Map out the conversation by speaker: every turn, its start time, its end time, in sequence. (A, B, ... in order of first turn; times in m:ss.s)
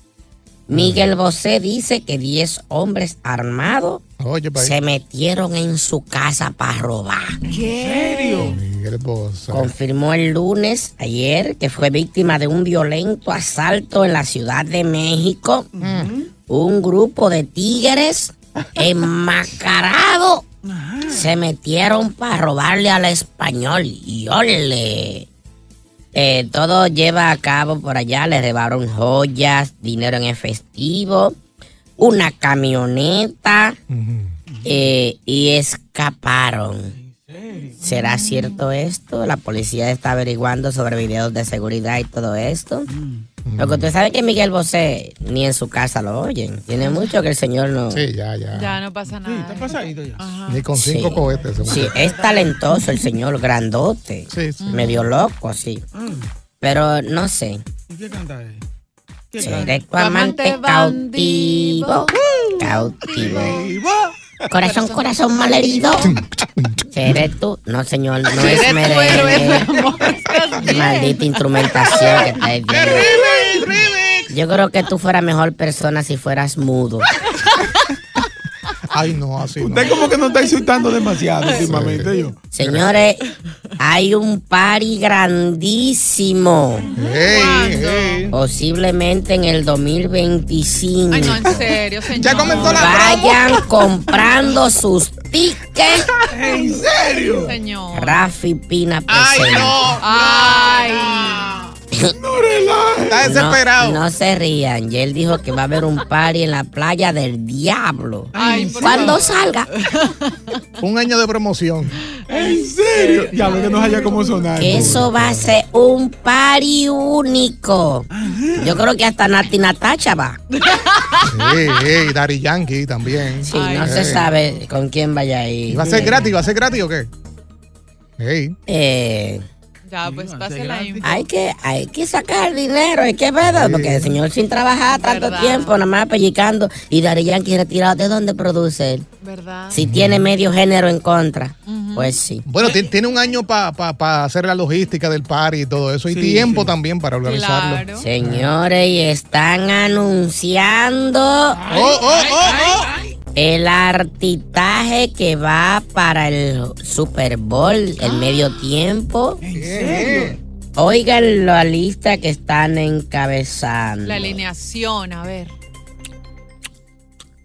0:00.7-0:04.0 A
0:00.7-0:01.1 B
0:04.2-0:04.8 B
0:04.6-0:07.4 A
0:07.5-0:08.5 C
0:07.5-0:08.6 D
0:08.4-0:09.7 B
0:09.5-0:15.7 A
0:15.8-0:16.3 D
0:15.8-0:16.1 B
0:16.5-0:20.4 A
0:20.6-0:21.3 D
0:21.1-0:25.3 A
0:26.1-0:31.4 A
0:32.0-0:33.8 A
0:33.9-0:34.4 B
0:34.6-0:36.9 A
0:36.9-0:37.8 D
0:37.8-0:42.9 A
0:37.9-0:38.4 C
0:42.9-0:43.3 D
0:43.4-0:43.9 B
0:43.6-0:48.0 A
0:47.9-0:48.8 B
0:48.5-0:50.7 C
0:49.2-0:50.3 D
0:50.5-0:52.0 B
0:50.7-0:55.8 A
0:51.6-0:52.5 C
0:54.3-0:54.9 B
0:54.6-0:55.0 C
0:55.9-0:56.3 D
0:56.6-0:57.6 A
0:57.9-0:58.6 D
0:59.3-0:59.7 D
0:59.4-1:03.6 A
1:00.0-1:03.6 C
1:03.2-1:03.8 B
1:03.4-1:04.1 D
1:04.5-1:06.1 A
1:04.6-1:06.1 C
1:06.0-1:07.2 B
1:06.9-1:09.8 A
1:08.4-1:11.4 C
1:10.6-1:13.1 A
1:11.9-1:12.2 C
1:12.7-1:14.2 D
1:12.8-1:14.0 B
1:14.3-1:17.1 A
1:18.9-1:20.0 B
1:19.6-1:22.4 D
1:21.6-1:22.9 B
1:22.5-1:23.2 A
1:23.8-1:26.9 A
1:26.9-1:28.3 B
1:27.2-1:28.3 C
1:28.3-1:31.7 A
1:31.1-1:33.2 C
1:32.2-1:33.5 B
1:32.6-1:36.1 A
1:36.3-1:37.6 D
1:37.4-1:38.2 C
1:37.9-1:39.8 A
1:39.1-1:41.3 B
1:40.0-1:41.6 C
1:41.2-1:41.6 D
1:42.2-1:43.3 D
1:43.0-1:44.0 B
1:43.2-1:49.7 A
1:48.3-1:49.2 D
1:48.3-1:50.6 C
1:50.8-1:52.0 B
1:52.2-1:54.6 C
1:52.3-1:55.1 D
1:54.6-2:00.4 A
1:54.6-1:55.5 B
1:58.1-1:58.8 D
2:00.5-2:01.5 C
2:01.2-2:04.3 B
2:03.4-2:06.2 A
2:03.5-2:04.6 C
2:05.7-2:07.1 B
2:05.9-2:06.2 D
2:08.2-2:08.6 B
2:08.7-2:09.4 A
2:09.9-2:11.2 C
2:10.0-2:11.2 D
2:11.0-2:19.0 A
2:13.4-2:14.2 B
2:14.9-2:15.7 C
2:19.2-2:19.8 C
2:19.7-2:22.4 A
2:19.8-2:20.3 B
2:21.7-2:22.2 C
2:22.5-2:28.5 B
2:26.1-2:26.7 D
2:27.2-2:28.0 C
2:28.0-2:31.6 A
2:31.6-2:33.1 D
2:31.7-2:32.9 B
2:33.3-2:39.4 A
2:39.4-2:40.4 D
2:39.5-2:40.4 B
2:40.8-2:44.4 A
2:44.0-2:45.5 C